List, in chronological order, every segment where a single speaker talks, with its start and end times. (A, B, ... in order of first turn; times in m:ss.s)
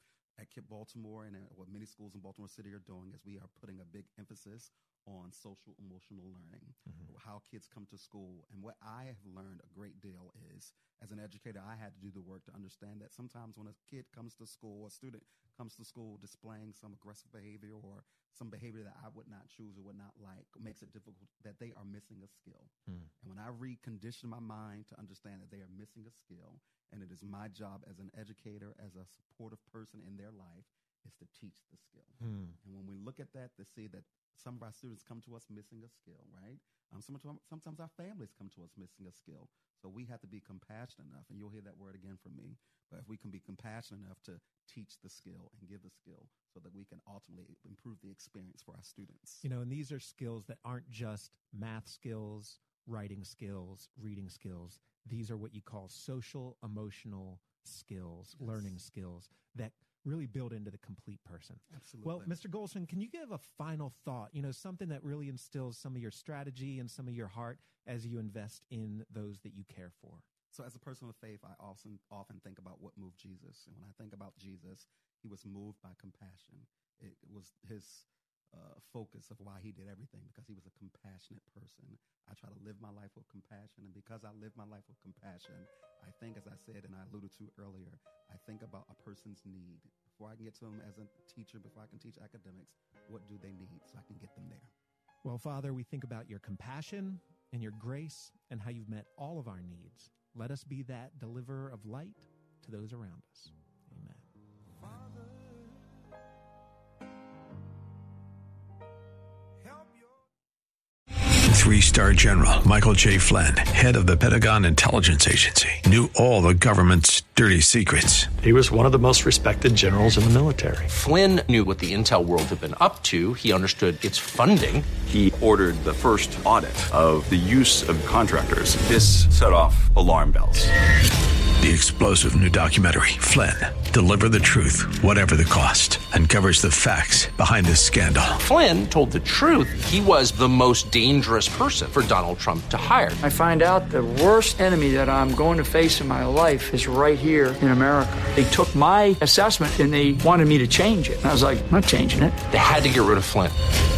0:00.4-0:49.4 A
0:32.2-0:32.6 B
0:49.4-1:10.2 B
0:58.4-0:58.8 A
1:01.7-1:02.4 A
1:10.5-1:34.7 A
1:35.2-1:44.3 B
1:51.5-1:58.3 C
1:58.4-2:00.9 D
2:00.9-2:04.9 E
2:05.0-2:10.7 F
2:11.6-2:18.4 C
2:18.4-2:23.2 E
2:23.2-2:32.4 G
2:32.4-2:33.6 E